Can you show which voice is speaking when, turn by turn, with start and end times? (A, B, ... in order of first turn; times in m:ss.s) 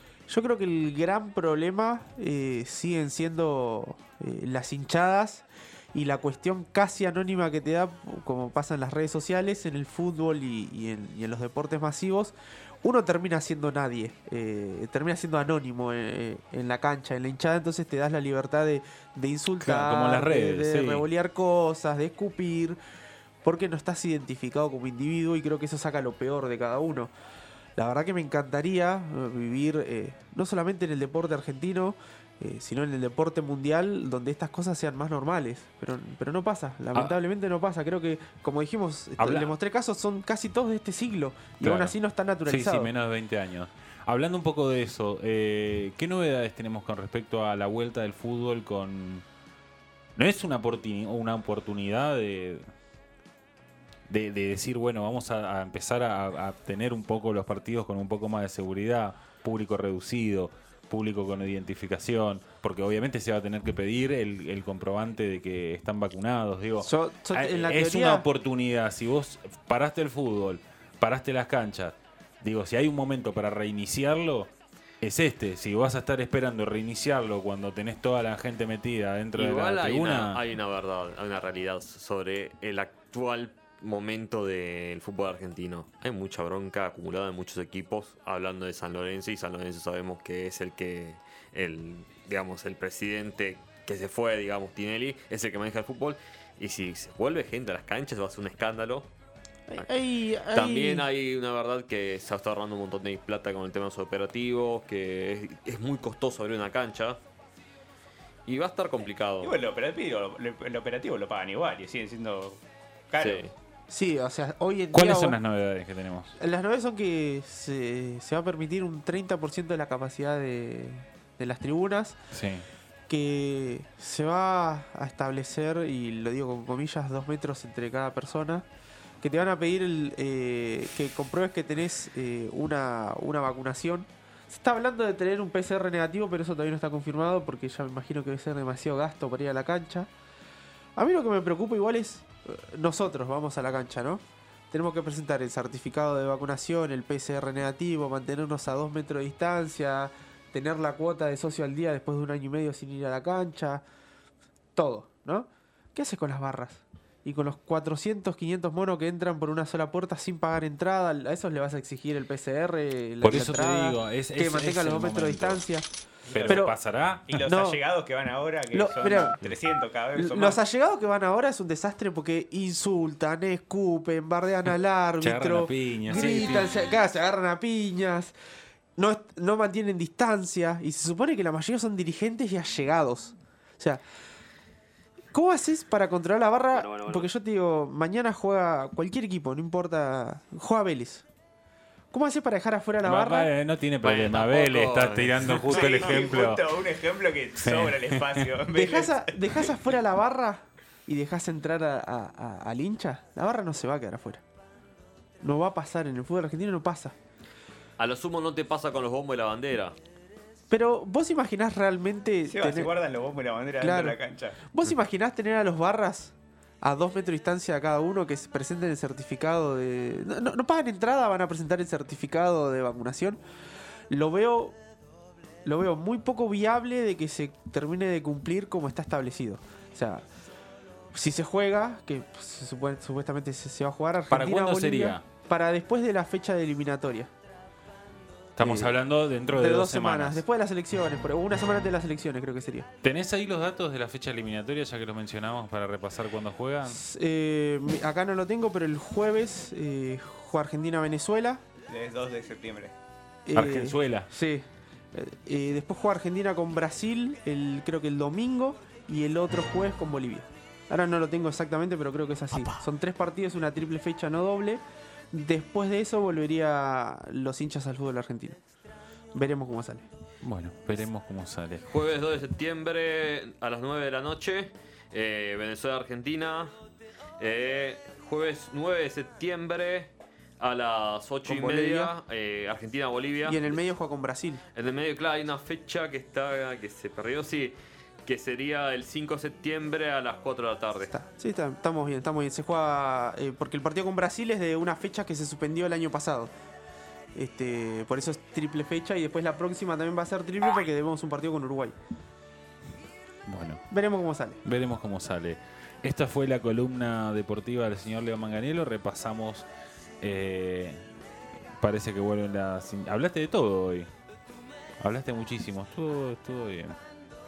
0:00.3-0:22.8 A
0:19.6-0:21.0 B
0:23.4-0:27.1 A
0:27.8-0:42.9 A
0:39.2-0:39.5 B
0:41.6-0:49.2 B
0:50.2-0:52.6 B
0:54.1-1:14.5 B
1:06.8-1:08.2 A
1:15.0-1:20.4 B
1:19.3-1:39.1 C
1:39.7-1:41.1 A
1:40.5-1:47.2 C
1:48.4-1:49.5 C
1:49.4-1:52.6 D
1:53.1-1:53.5 D
1:53.2-1:53.5 C
1:53.9-1:55.4 A
1:54.9-1:56.3 B
1:56.4-2:02.2 A
2:02.3-2:02.6 B
2:03.1-2:08.6 A
2:09.2-2:20.1 A
2:21.0-2:33.8 A
2:34.8-2:45.9 A
2:43.2-2:45.6 B
2:46.3-2:46.7 D
2:46.3-2:47.2 B
2:46.4-2:46.7 A
2:47.3-2:50.6 D
2:47.3-2:47.8 A
2:48.7-2:49.4 A
2:50.1-2:58.3 A
2:55.2-2:56.7 B
2:59.0-3:04.0 A
3:05.3-3:11.2 A
3:06.7-3:07.2 C
3:12.1-3:13.5 A
3:13.0-3:16.6 B
3:14.0-3:16.2 C
3:15.6-3:19.8 D
3:17.6-3:18.5 B
3:18.7-3:24.4 A
3:25.4-3:27.1 A
3:28.0-3:29.9 C
3:30.7-3:32.9 A
3:32.5-3:34.6 D
3:33.8-3:43.4 A
3:44.1-3:44.8 A
3:45.6-3:50.2 A
3:51.1-3:57.3 A
3:54.3-3:55.2 B
3:58.6-4:00.4 B
3:58.6-3:59.0 A
3:59.5-4:02.9 A
4:03.0-4:07.0 B
4:06.8-4:11.6 A
4:11.9-4:12.9 D
4:13.4-4:28.6 A
4:13.5-4:14.3 B
4:29.3-4:30.0 A
4:30.4-4:31.8 B
4:31.8-4:36.7 C
4:37.4-4:43.8 C
4:41.4-4:42.1 A
4:43.4-4:44.6 A
4:44.7-4:47.7 C
4:48.2-4:51.1 C
4:51.1-4:56.5 A
4:57.3-5:01.9 A
5:03.5-5:03.8 B
5:03.9-5:04.6 A
5:04.6-5:09.6 B
5:10.2-5:11.0 B
5:11.8-5:14.1 B
5:15.0-5:17.0 B